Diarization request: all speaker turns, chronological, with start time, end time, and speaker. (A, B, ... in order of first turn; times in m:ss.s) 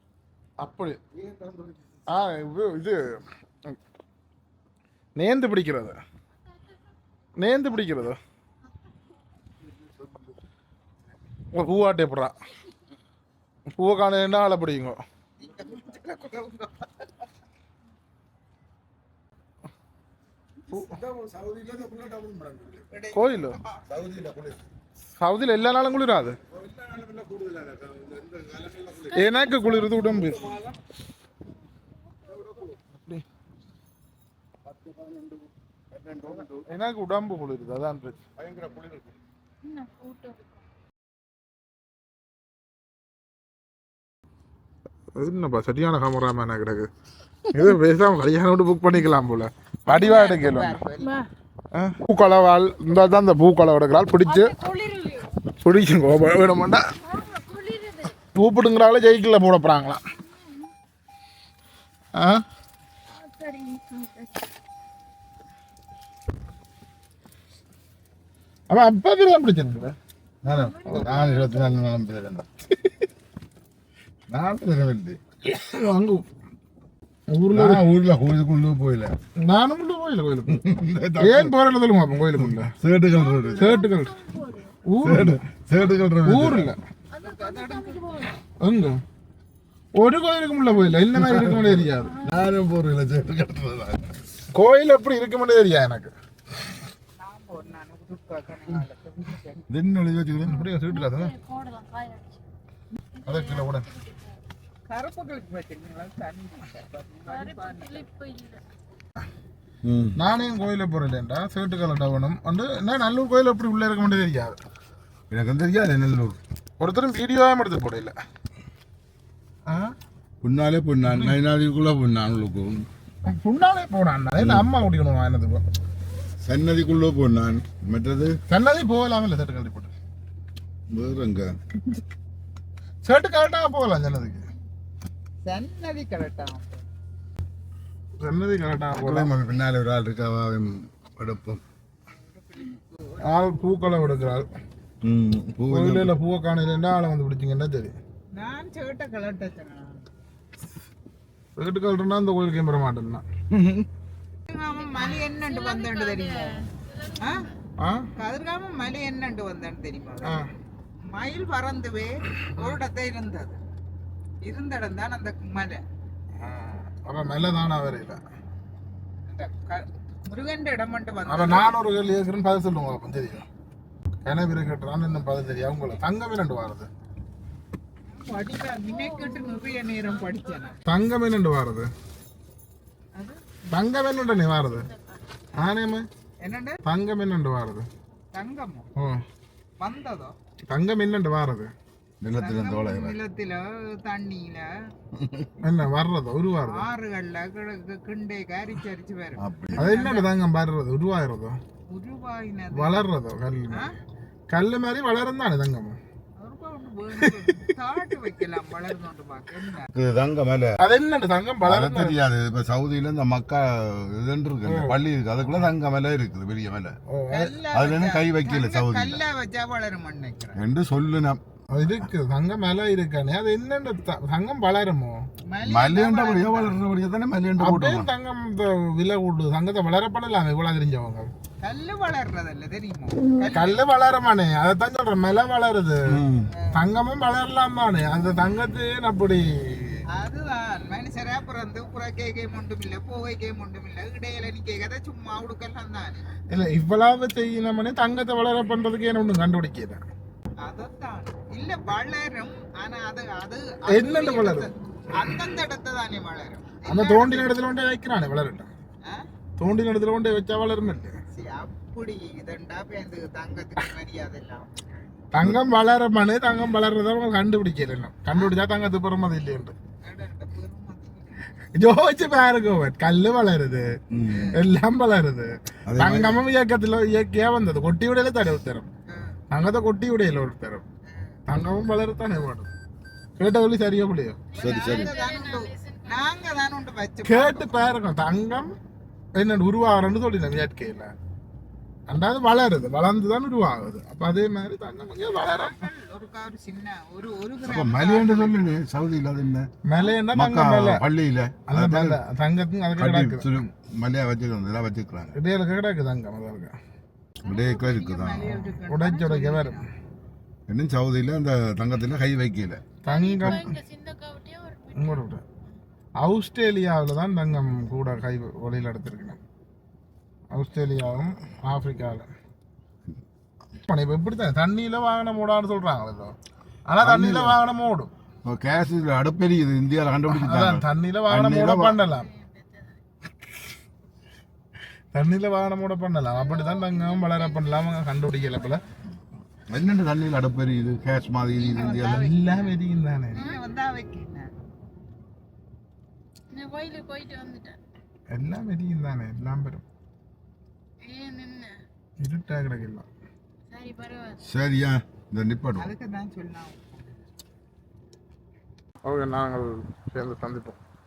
0:00.6-0:01.0 A
0:01.1-0:02.0 B
0:02.1-0:03.8 A
0:05.2-0:06.0 A
0:07.4-0:08.2 A
0:11.5-0:12.3 A
0:13.8-0:15.0 A
0:15.4-0:17.1 C
0:20.7-0:21.0 A
0:20.9-0:22.9 B
0:22.9-0:23.5 C
0:23.1-0:23.5 A
0:23.9-0:24.6 B
0:25.2-0:26.4 A
0:26.5-0:29.3 B
0:29.1-0:30.0 D
0:29.1-0:30.6 A
0:30.4-0:30.7 B
0:32.8-0:33.2 A
0:34.7-0:35.4 B
0:35.9-0:36.6 B
0:36.6-0:38.4 A
0:38.4-0:39.1 B
0:39.6-0:40.6 D
0:45.1-0:46.9 A
0:47.5-0:50.8 A
0:49.9-0:51.2 C
0:51.0-0:51.2 D
0:51.7-0:54.5 A
0:54.2-0:55.4 D
0:55.6-0:56.9 A
0:57.0-0:58.2 D
0:58.3-1:00.0 A
1:00.2-1:00.7 D
1:02.2-1:02.4 A
1:03.1-1:04.4 D
1:08.7-1:09.9 A
1:10.4-1:12.4 B
1:10.5-1:11.8 D
1:10.8-1:11.2 A
1:14.3-1:15.2 B
1:15.4-1:16.2 A
1:17.3-1:17.9 A
1:17.5-1:19.1 B
1:19.4-1:22.7 A
1:20.5-1:21.5 B
1:22.4-1:23.8 B
1:23.1-1:24.8 D
1:23.6-1:24.1 A
1:24.9-1:25.4 A
1:25.0-1:26.7 B
1:26.2-1:26.8 A
1:27.1-1:28.3 D
1:27.1-1:28.3 C
1:28.6-1:29.0 A
1:29.9-1:32.2 A
1:31.1-1:34.1 B
1:32.0-1:32.4 D
1:34.5-1:36.1 A
1:37.2-1:39.7 C
1:39.7-1:40.7 B
1:40.4-1:41.3 A
1:40.5-1:42.4 D
1:43.2-1:44.4 D
1:43.2-1:43.9 A
1:44.9-1:48.1 C
1:47.3-1:48.6 D
1:49.8-1:50.2 B
1:50.2-1:54.6 A
1:55.3-1:56.4 B
1:56.8-1:58.2 A
1:59.7-1:59.9 A
2:00.4-2:02.9 B
2:01.0-2:01.4 A
2:03.2-2:05.6 A
2:04.4-2:04.7 B
2:06.4-2:08.4 B
2:08.5-2:09.9 A
2:10.9-2:11.5 B
2:13.0-2:14.4 A
2:15.4-2:16.9 C
2:18.2-2:19.3 A
2:18.9-2:21.6 B
2:22.3-2:23.2 C
2:23.2-2:24.5 A
2:25.0-2:26.1 B
2:25.7-2:27.9 A
2:28.3-2:30.0 C
2:31.6-2:33.2 A
2:33.5-2:33.9 B
2:34.5-2:36.6 C
2:34.7-2:37.5 D
2:37.2-2:37.5 C
2:37.8-2:38.1 A
2:38.2-2:40.4 C
2:41.0-2:43.6 C
2:44.4-2:45.8 C
2:46.4-2:48.2 A
2:49.3-2:51.7 C
2:51.3-2:53.4 A
2:54.2-2:56.9 A
2:58.1-3:00.8 C
2:58.8-3:00.7 D
3:00.8-3:01.9 A
3:03.2-3:03.4 C
3:03.7-3:04.9 A
3:04.3-3:05.2 D
3:05.5-3:06.1 A
3:06.4-3:06.8 C
3:06.8-3:07.9 A
3:08.3-3:08.9 C
3:09.0-3:09.2 A
3:09.8-3:10.3 C
3:10.7-3:11.7 A
3:12.2-3:13.2 B
3:12.4-3:14.7 C
3:15.1-3:15.5 B
3:15.6-3:16.9 A
3:16.6-3:20.3 C
3:19.4-3:20.0 B
3:19.8-3:21.6 A
3:21.9-3:23.0 C
3:22.7-3:23.9 A
3:24.5-3:26.0 A
3:26.4-3:29.9 C
3:27.2-3:27.6 A
3:29.9-3:30.8 B
3:30.8-3:32.2 A
3:31.6-3:37.0 B
3:34.6-3:35.0 A
3:37.1-3:37.6 A
3:37.3-3:40.6 C
3:37.7-3:39.2 B
3:40.6-3:41.9 B
3:41.7-3:45.3 A
3:45.5-3:46.8 C
3:45.6-3:48.1 B
3:47.6-3:51.3 A
3:51.6-3:53.8 C
3:53.2-3:53.5 D
3:53.5-3:56.2 A
3:56.1-3:56.5 B
3:56.5-3:56.8 C
3:56.7-4:00.0 A
4:00.1-4:06.2 C
4:06.5-4:10.0 A
4:10.6-4:17.5 C
4:13.9-4:14.7 A
4:16.8-4:18.7 A
4:19.6-4:21.2 A
4:21.3-4:24.7 C
4:25.3-4:29.8 A
4:30.0-4:31.6 C
4:31.7-4:34.0 A
4:34.1-4:34.5 B
4:34.2-4:34.6 C
4:34.5-4:38.9 A
4:35.9-4:36.4 B
4:39.1-4:39.4 C
4:39.5-4:40.8 A
4:41.5-4:42.7 A
4:43.4-4:44.4 A
4:44.5-4:46.7 D
4:44.6-4:47.9 C
4:44.6-4:45.1 B
4:47.2-4:48.8 A
4:49.3-4:51.1 A
4:52.1-4:55.8 A
4:55.4-4:58.6 C
4:57.6-4:59.7 B
4:59.8-5:01.0 A
5:00.3-5:02.2 B
5:01.7-5:03.5 A
5:03.0-5:05.4 B
5:05.3-5:06.8 A
5:07.4-5:09.8 C
5:07.4-5:08.6 B
5:08.9-5:09.8 A
5:10.7-5:12.8 B
5:13.0-5:15.2 D
5:13.0-5:13.8 A
5:13.4-5:13.6 B
5:15.0-5:15.4 A
5:16.2-5:19.4 A
5:20.5-5:22.3 A
5:23.8-5:26.3 A
5:26.9-5:28.1 A
5:27.0-5:27.6 B
5:28.4-5:32.0 B
5:30.3-5:32.3 A
5:32.1-5:33.0 D
5:35.1-5:38.8 A
5:36.3-5:37.9 D
5:39.7-5:42.3 B
5:41.6-5:42.7 C
5:41.8-5:43.5 A
5:43.3-5:44.5 C
5:46.5-5:47.8 D
5:48.3-5:49.8 A
5:51.0-5:51.8 D
5:52.2-5:53.1 A
5:53.7-5:54.4 D
5:54.4-5:55.9 B
5:55.8-5:57.2 C
5:59.0-6:00.8 A